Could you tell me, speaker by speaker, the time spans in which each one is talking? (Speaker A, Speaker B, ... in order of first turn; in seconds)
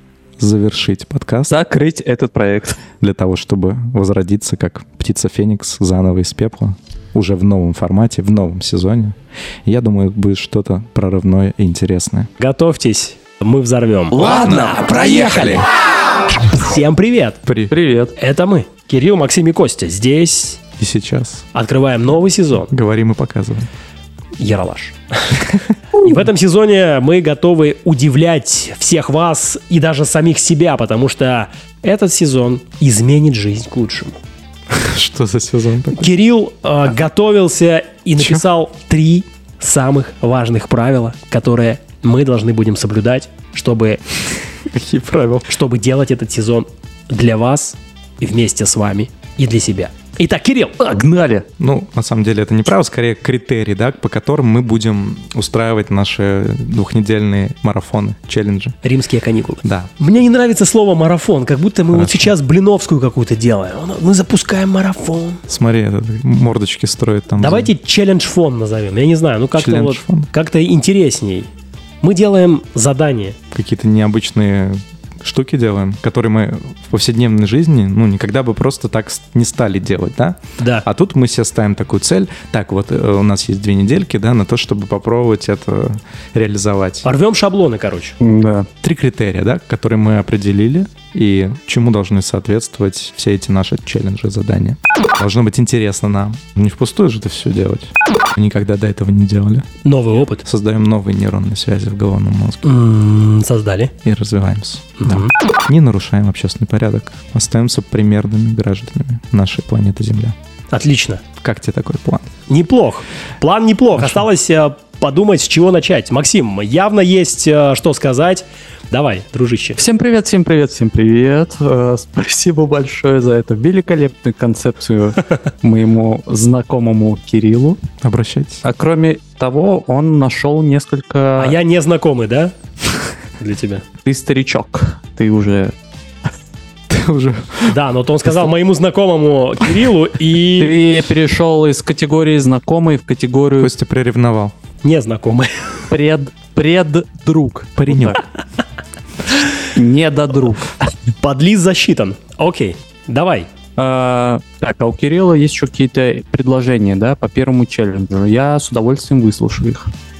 Speaker A: 0.4-1.6, 3.0-12.3, 14.2-15.6, 17.4-17.7, 20.8-21.5, 22.6-23.7, 34.7-36.1, 38.2-38.4, 44.5-45.5, 51.6-58.8, 59.6-59.9, 61.9-62.3, 65.5-67.7, 69.5-70.3, 73.5-87.1, 88.8-99.7, 100.4-102.7, 104.0-110.3, 111.4-112.3, 114.0-114.2, 128.0-128.6, 136.9-137.8, 143.6-144.5, 147.8-148.2
Speaker B: 1.5-2.8, 17.7-18.1, 50.8-51.5, 88.2-88.7, 119.8-127.8, 128.6-131.6, 134.0-135.7, 140.6-143.7, 145.9-148.2, 149.5-150.7, 153.8-159.9
Speaker C: 12.4-15.6, 16.3-17.4, 18.1-20.6, 21.5-22.7, 24.4-34.2, 36.0-44.0, 45.5-50.8, 58.8-65.4, 67.4-71.5, 72.0-73.4, 80.6-80.8, 87.0-88.2, 99.8-100.4, 102.6-103.9, 105.0-105.3, 110.7-111.2, 112.5-119.8, 131.4-132.5, 133.4-133.8, 137.7-140.8, 144.8-145.8, 151.2-153.5